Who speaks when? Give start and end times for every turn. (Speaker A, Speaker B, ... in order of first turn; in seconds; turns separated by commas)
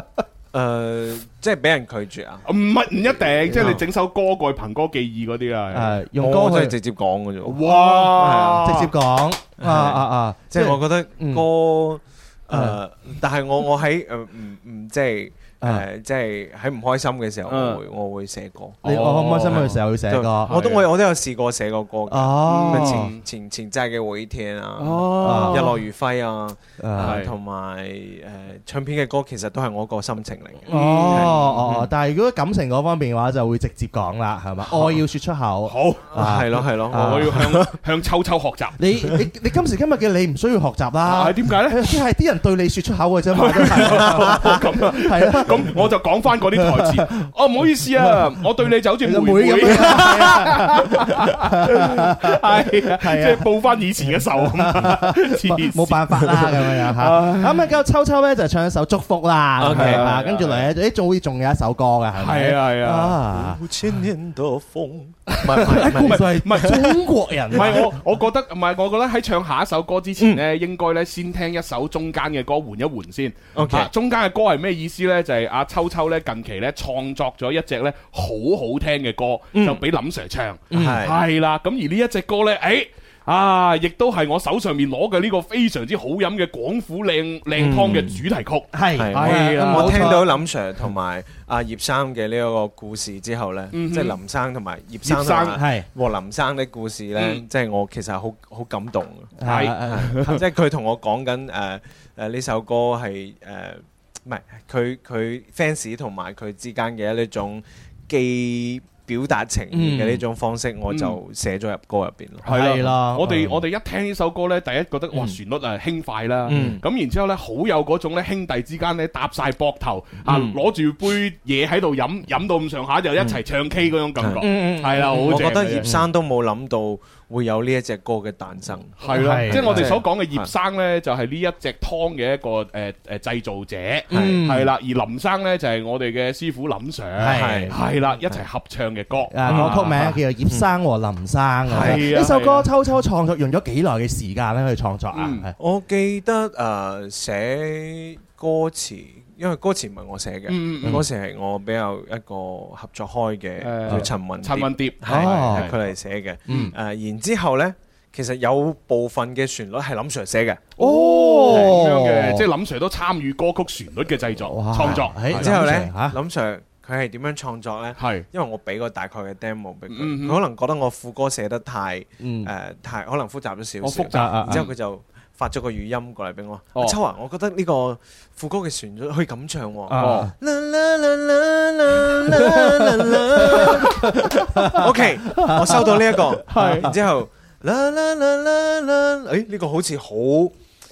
Speaker A: 0.5-2.5, Speaker B: 2.5-6.0, Speaker A: 3.1-3.8, Speaker C: 5.7-6.8, Speaker A: 6.2-8.7, Speaker B: 7.4-8.9, Speaker C: 7.6-11.4, Speaker A: 9.6-18.8, Speaker C: 12.5-12.8, Speaker B: 17.4-17.8, Speaker B: 18.8-19.8, Speaker C: 18.8-20.5, Speaker A: 19.4-31.9, Speaker B: 20.4-20.9, Speaker C: 22.1-23.1, Speaker B: 22.4-23.2, Speaker B: 24.8-25.8, Speaker C: 25.2-25.7, Speaker C: 26.8-27.2, Speaker B: 27.0-27.3, Speaker C: 30.7-37.5, Speaker B: 30.7-31.9, Speaker B: 35.6-36.2, Speaker A: 36.1-37.7, Speaker B: 36.9-38.8, Speaker C: 38.8-45.8, Speaker B: 41.0-42.0, Speaker B: 43.3-57.7, Speaker C: 46.5-47.3, Speaker C: 49.0-53.5, Speaker C: 54.0-63.6, Speaker A: 59.6-60.2, Speaker B: 59.6-60.7, Speaker B: 62.1-63.2, Speaker A: 63.3-66.6, Speaker B: 65.4-90.2, Speaker C: 65.6-67.9, Speaker A: 67.5-67.8, Speaker A: 73.5-73.9, Speaker A: 79.5-79.8, Speaker C: 80.7-81.0, Speaker A: 80.7-81.2, Speaker A: 87.5-88.2, Speaker C: 88.7-90.3, Speaker A: 89.0-112.5, Speaker B: 93.7-94.2, Speaker B: 95.0-95.6, Speaker C: 95.5-95.8, Speaker B: 97.2-97.4, Speaker C: 99.4-100.3, Speaker B: 99.4-100.4, Speaker C: 109.7-110.2, Speaker B: 110.9-111.2, Speaker B: 112.4-125.9, Speaker C: 112.5-113.6, Speaker A: 116.5-116.8, Speaker C: 116.5-116.8, Speaker A: 120.2-120.6, Speaker A: 124.2-130.5, Speaker C: 124.4-126.1, Speaker B: 129.0-140.2, Speaker C: 129.0-130.0, Speaker C: 134.1-134.7, Speaker A: 134.1-134.4, Speaker C: 137.2-137.8, Speaker A: 137.3-138.4, Speaker C: 139.3-145.5, Speaker A: 139.4-139.8, Speaker B: 141.7-142.7, Speaker A: 141.7-142.0, Speaker B: 145.1-145.4, Speaker A: 145.6-160.7, Speaker B: 150.5-151.1, Speaker B: 153.6-155.8, Speaker C: 155.0-155.7, Speaker C: 156.5-156.7, Speaker C: 160.8-162.4, Speaker B: 160.8-165.6, Speaker C: 164.5-166.2, Speaker A: 165.2-184.1, Speaker B: 168.0-168.2, Speaker B: 169.9-170.4, Speaker C: 172.2-172.5, Speaker B: 173.8-174.7, Speaker C: 174.1-174.7, Speaker C: 179.9-180.3, Speaker B: 179.9-180.3, Speaker C: 182.3-186.9, Speaker B: 184.5-184.8, Speaker A: 184.6-190.5, Speaker B: 186.5-186.9